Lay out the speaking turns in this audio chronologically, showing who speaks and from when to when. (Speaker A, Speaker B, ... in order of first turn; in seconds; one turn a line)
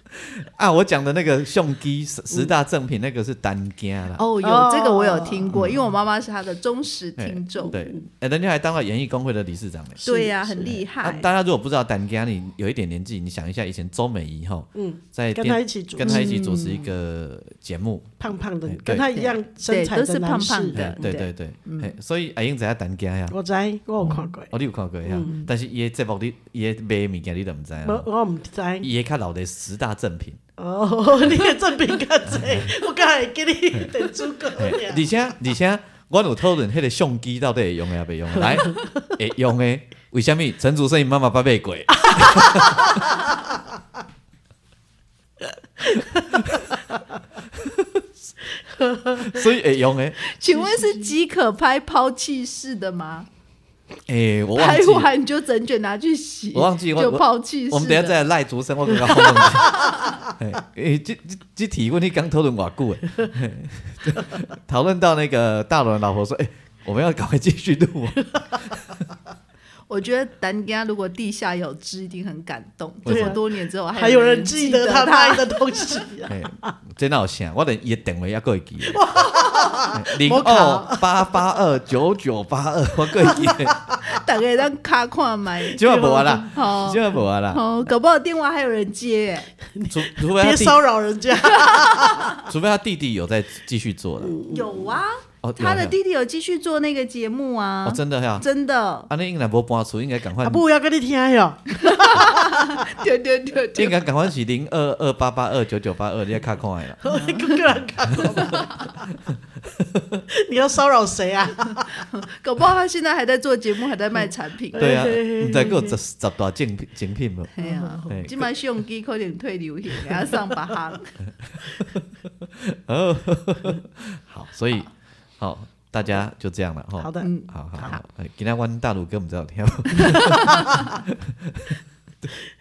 Speaker A: 0.1-4.2
Speaker B: 4.2-7.8
Speaker C: 4.4-5.5
Speaker A: 5.5-5.9
Speaker A: 7.2-10.0
Speaker C: 7.7-8.0
Speaker C: 10.0-10.8
Speaker B: 10.1-11.3
Speaker A: 10.6-19.1
Speaker C: 14.8-16.9
Speaker B: 16.0-16.7
Speaker C: 18.2-21.1
Speaker B: 18.9-21.9
Speaker A: 20.7-23.4
Speaker C: 23.3-24.5
Speaker A: 24.0-28.1
Speaker C: 25.1-25.3
Speaker B: 25.2-25.5
Speaker C: 27.8-28.9
Speaker A: 28.8-30.4
Speaker C: 30.6-35.1
Speaker A: 32.3-32.7
Speaker A: 34.6-43.0
Speaker C: 38.4-38.9
Speaker C: 42.1-42.9
Speaker A: 47.6-48.0
Speaker C: 48.6-49.5
Speaker A: 49.2-50.2
Speaker B: 50.2-53.3
Speaker C: 50.5-51.0
Speaker A: 54.1-55.1
Speaker B: 54.6-58.2
Speaker A: 56.5-69.0
Speaker B: 59.1-60.2
Speaker B: 69.9-76.0
Speaker A: 73.0-73.4
Speaker C: 73.1-73.4
Speaker C: 73.9-76.7
Speaker A: 76.3-79.1
Speaker C: 78.9-81.4
Speaker A: 79.9-84.0
Speaker B: 84.0-85.8
Speaker A: 85.8-87.6
Speaker C: 85.8-86.5
Speaker B: 86.5-89.5
Speaker C: 89.7-92.4
Speaker A: 89.9-90.8
Speaker B: 91.5-92.4
Speaker A: 92.4-94.4
Speaker C: 94.2-94.9
Speaker B: 94.5-99.1
Speaker A: 95.4-96.0
Speaker A: 97.8-98.5
Speaker A: 99.1-100.6
Speaker C: 100.4-102.9
Speaker B: 101.8-104.0
Speaker A: 103.8-107.1
Speaker C: 107.0-108.7
Speaker B: 107.0-107.6
Speaker A: 107.7-108.6
Speaker B: 108.3-108.9
Speaker A: 109.8-110.2
Speaker C: 110.3-112.1
Speaker B: 112.1-114.9
Speaker C: 114.7-116.0
Speaker A: 114.8-118.5
Speaker B: 117.6-121.1
Speaker C: 117.6-118.2
Speaker A: 121.4-132.4
Speaker C: 127.0-128.0
Speaker B: 127.2-128.0
Speaker C: 130.1-130.6